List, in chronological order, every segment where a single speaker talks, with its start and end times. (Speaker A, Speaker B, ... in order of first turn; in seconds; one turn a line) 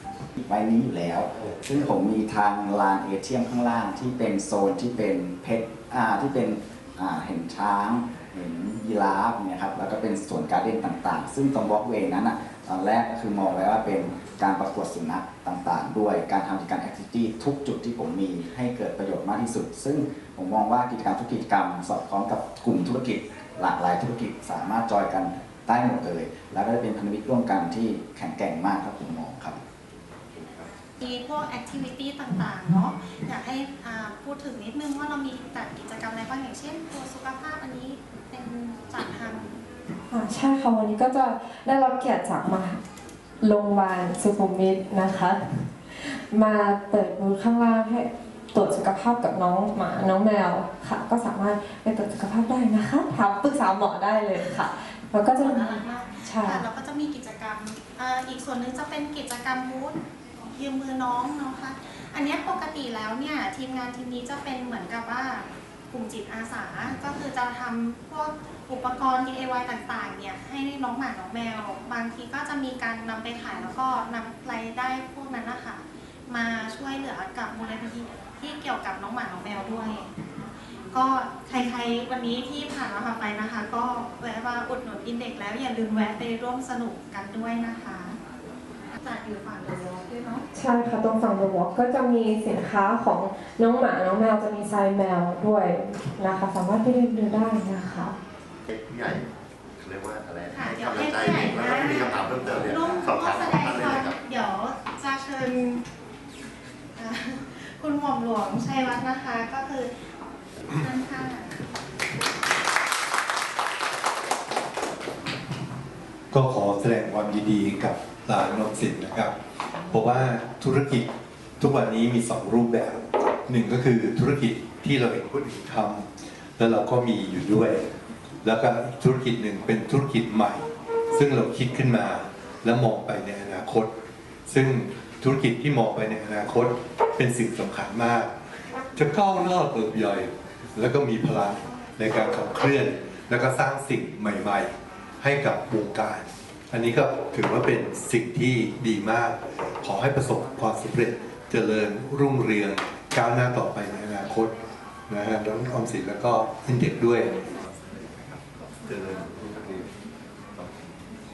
Speaker A: 0.4-29.6
Speaker B: 31.0-39.5
Speaker C: 40.1-42.8
Speaker C: 43.4-56.6
Speaker B: 55.3-60.0
Speaker B: 60.5-80.1
Speaker B: 80.9-88.2
Speaker B: 88.9-90.4
Speaker C: 90.5-98.1
Speaker D: 98.7-99.2
Speaker D: 99.8-104.2
Speaker B: 100.5-105.8
Speaker B: 107.0-109.9
Speaker B: 110.7-111.6
Speaker E: 116.3-119.3
Speaker E: 119.9-121.1
Speaker E: 121.6-127.8
Speaker E: 128.4-133.9
Speaker E: 134.5-138.3
Speaker E: 138.9-154.5
Speaker E: 155.1-157.4
Speaker E: 158.8-159.8